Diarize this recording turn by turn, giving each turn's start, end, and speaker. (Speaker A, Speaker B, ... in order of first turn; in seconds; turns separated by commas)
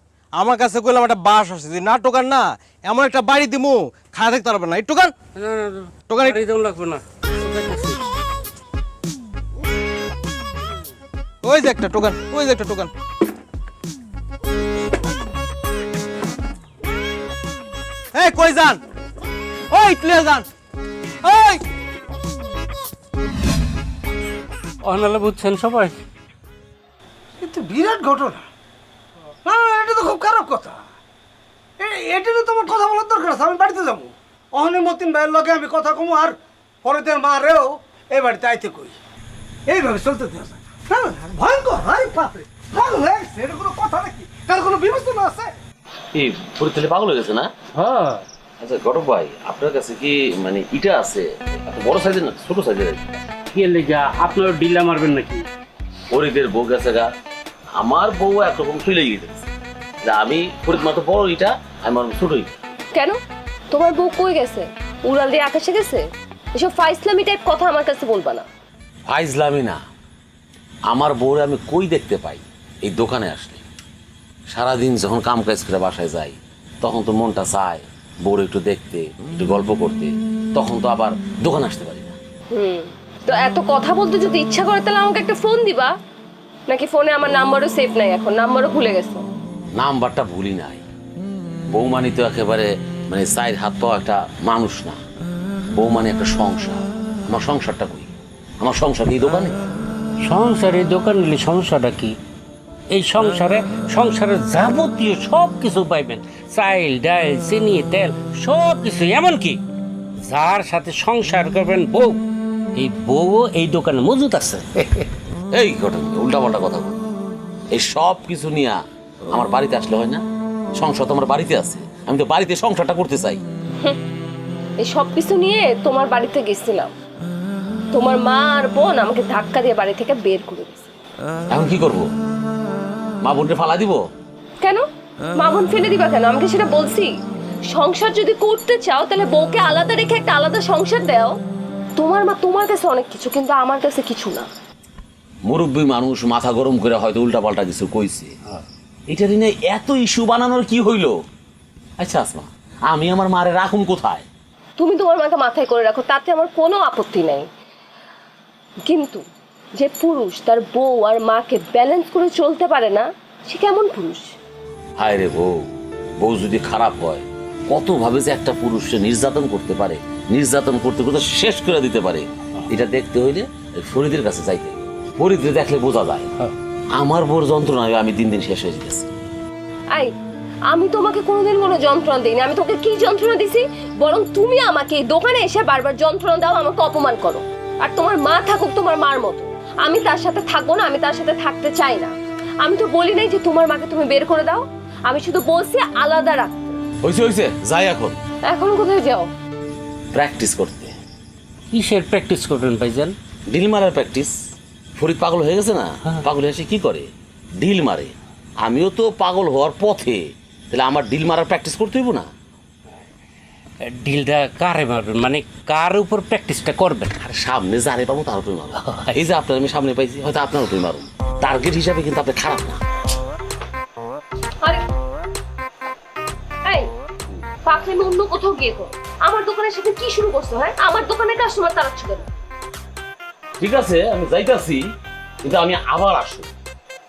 Speaker A: 0.3-5.1, Speaker B: 5.4-7.9, Speaker A: 6.1-6.4, Speaker A: 11.4-12.9, Speaker A: 18.1-18.8, Speaker A: 19.7-20.4, Speaker A: 21.2-21.6, Speaker B: 24.8-26.0, Speaker C: 27.4-28.4, Speaker C: 29.4-30.8, Speaker C: 31.8-36.3, Speaker C: 36.8-38.9, Speaker C: 39.7-40.5, Speaker D: 46.1-47.5, Speaker B: 47.7-48.2, Speaker D: 48.6-53.0, Speaker B: 53.5-55.4, Speaker D: 56.1-57.1, Speaker D: 57.8-59.5, Speaker D: 60.0-62.5, Speaker E: 62.9-63.2, Speaker E: 63.7-66.0, Speaker E: 66.5-68.5, Speaker D: 69.1-69.8, Speaker D: 70.9-73.6, Speaker D: 74.5-82.2, Speaker E: 82.5-85.9, Speaker E: 86.7-89.3, Speaker D: 89.7-90.8, Speaker D: 91.7-95.0, Speaker D: 95.7-99.6, Speaker B: 100.2-102.2, Speaker B: 102.9-109.6, Speaker B: 110.2-112.2, Speaker B: 112.7-114.7, Speaker D: 115.5-117.0, Speaker D: 117.7-120.2, Speaker D: 120.8-123.4, Speaker E: 124.8-126.9, Speaker E: 127.9-130.9, Speaker D: 131.5-132.1, Speaker D: 133.2-134.0, Speaker E: 135.3-137.1, Speaker E: 137.7-141.3, Speaker E: 142.0-144.5, Speaker D: 145.4-148.3, Speaker D: 149.1-151.2, Speaker D: 152.0-154.3, Speaker E: 154.8-157.5, Speaker E: 158.9-159.2, Speaker E: 159.8-164.3, Speaker D: 165.0-176.3, Speaker D: 176.9-179.1, Speaker E: 180.7-196.8, Speaker D: 197.0-198.2, Speaker E: 198.4-199.3, Speaker D: 200.1-200.9, Speaker B: 201.7-203.1, Speaker D: 203.5-204.3, Speaker D: 204.9-212.3, Speaker B: 213.8-217.2, Speaker D: 217.2-222.8, Speaker E: 226.6-226.9, Speaker E: 227.7-232.3, Speaker D: 233.6-234.9, Speaker D: 235.4-236.5